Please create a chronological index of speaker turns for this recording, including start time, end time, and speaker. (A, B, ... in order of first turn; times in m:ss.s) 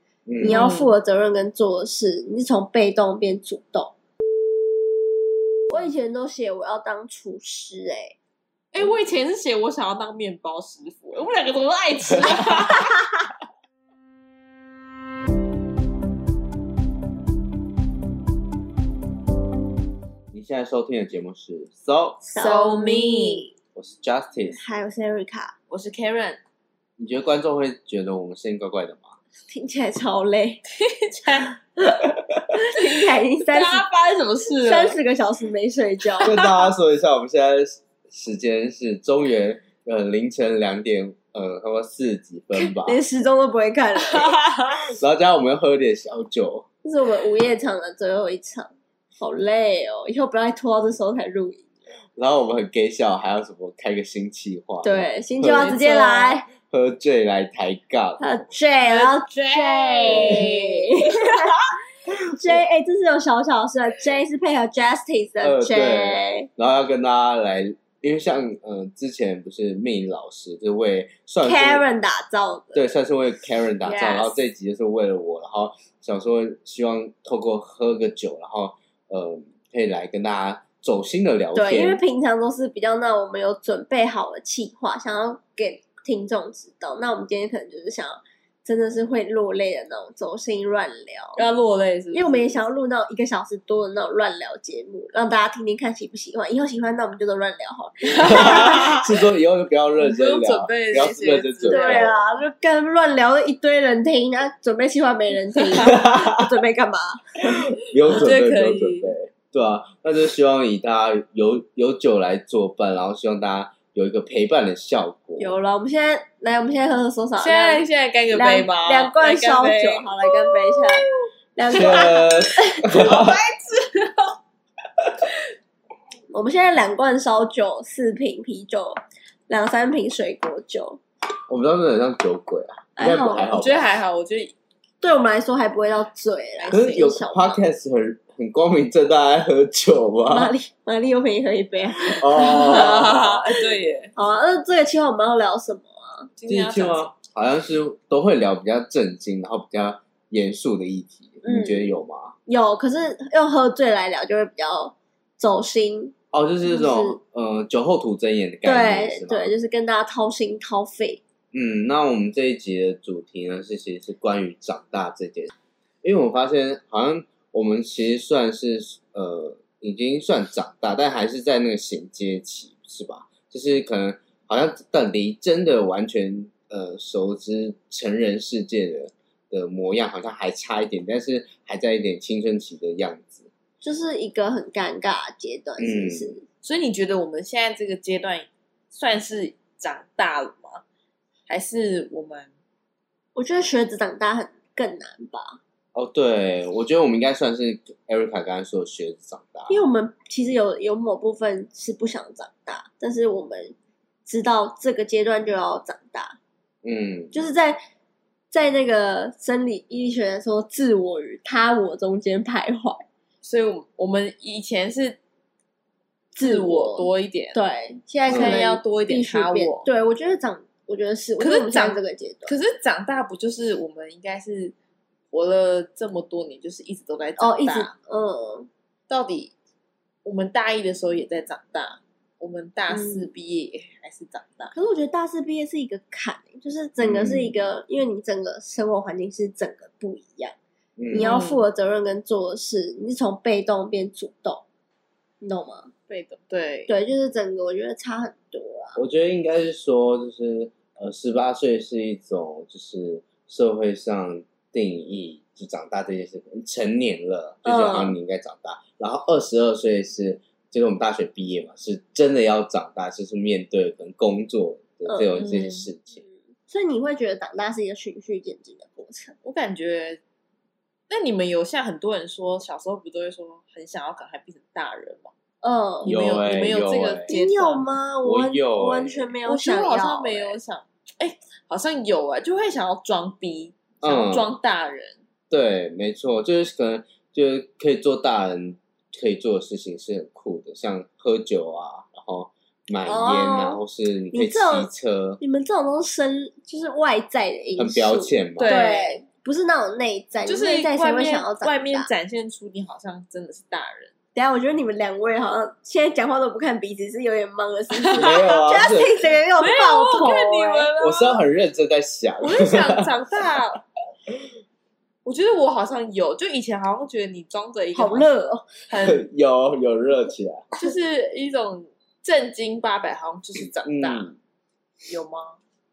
0:00.3-0:00.6 A
0:00.4-0:03.9 B
0:00.4-0:00.9 C
0:05.7-0:08.2 B
0:08.7-0:12.9 C
0:20.3-0:22.2 A
0:22.2-0:23.5 C
0:22.3-0:23.5 B
0:23.8-0:24.6 A
0:24.6-0:25.5 B
0:25.7-0:26.4 C
0:27.0-0:29.2 A
0:29.5-0:30.6 B
0:30.7-0:31.6 C
0:32.6-0:33.8 B
0:33.5-0:35.0 C
0:34.6-0:36.4 B
0:36.2-0:43.0 A
0:36.3-0:36.6 C
0:42.6-0:44.4 B
0:44.9-0:46.7 A
0:46.8-0:51.7 B
0:52.2-0:58.2 A
0:54.8-0:56.5 B
0:58.2-1:01.6 B
0:58.8-1:01.5 C
1:00.1-1:00.4 A
1:02.1-1:02.6 A
1:02.3-1:06.5 B
1:05.4-1:11.8 A
1:11.4-1:13.0 B
1:12.8-1:22.0 A
1:13.8-1:14.4 C
1:21.6-1:31.4 B
1:31.4-1:32.6 C
1:32.1-1:39.0 B
1:38.3-1:42.1 A
1:38.3-1:38.9 C
1:40.0-1:42.2 C
1:41.7-1:47.6 B
1:45.8-1:46.5 A
1:47.8-1:55.6 A
1:48.1-1:49.1 C
1:55.4-2:01.0 B
1:57.4-2:01.1 C
2:01.6-2:02.9 B
2:01.7-2:04.4 C
2:01.7-2:03.4 A
2:06.3-2:09.0 B
2:09.5-2:11.0 B
2:11.5-2:14.0 A
2:13.0-2:13.5 B
2:13.5-2:14.6 C
2:15.0-2:17.6 B
2:16.6-2:17.0 C
2:16.7-2:20.5 A
2:20.3-2:23.3 B
2:22.1-2:23.4 A
2:22.4-2:24.1 C
2:24.2-2:26.3 B
2:26.4-2:27.1 C
2:26.5-2:32.4 A
2:31.4-2:31.9 B
2:32.5-2:36.1 B
2:36.3-2:39.5 A
2:36.6-2:37.2 B
2:38.6-2:41.2 B
2:41.5-2:45.5 A
2:46.0-3:03.5 A
3:03.8-3:06.4 B
3:05.8-3:06.4 A
3:06.6-3:10.8 C
3:11.5-3:12.5 C
3:13.4-3:15.6 B
3:15.9-3:19.8 A
3:19.7-3:26.4 B
3:26.8-3:27.3 A
3:27.3-3:27.8 B
3:28.5-3:33.0 B
3:33.4-3:35.2 C
3:36.4-3:42.6 B
3:36.4-3:37.6 C
3:38.3-3:39.9 C
3:38.3-3:38.6 A
3:41.4-3:44.7 C
3:45.3-3:47.9 C
3:47.4-3:48.7 B
3:49.1-3:49.5 C
3:50.2-3:54.8 C
3:52.9-3:53.3 B
3:54.7-4:00.6 B
3:57.0-3:57.5 A
4:01.0-4:01.3 A
4:01.1-4:04.6 B
4:01.2-4:01.6 C
4:05.4-4:05.9 B
4:06.1-4:06.9 C
4:06.9-4:09.0 B
4:09.0-4:26.2 A
4:17.6-4:18.2 B
4:25.1-4:25.4 B
4:25.4-4:25.9 C
4:26.7-4:29.4 B
4:29.4-4:30.2 C
4:31.1-4:35.3 C
4:35.6-4:36.1 B
4:36.0-4:37.8 C
4:36.0-4:37.3 A
4:37.3-4:40.6 B
4:38.2-4:39.3 A
4:39.4-4:45.2 C
4:44.0-4:44.6 A
4:45.5-4:55.4 A
4:53.0-4:53.8 B
4:54.3-4:54.9 B
4:55.4-5:02.1 B
4:57.8-4:58.8 A
4:58.6-4:59.2 C
5:00.5-5:04.1 C
5:04.4-5:10.9 B
5:08.0-5:08.6 C
5:08.2-5:09.1 A
5:09.6-5:11.4 C
5:11.0-5:13.1 A
5:12.4-5:13.8 C
5:15.2-5:18.3 C
5:18.0-5:18.7 B
5:18.9-5:19.2 C
5:19.0-5:20.7 A
5:20.8-5:24.3 C
5:23.8-5:24.4 A
5:25.1-5:25.6 C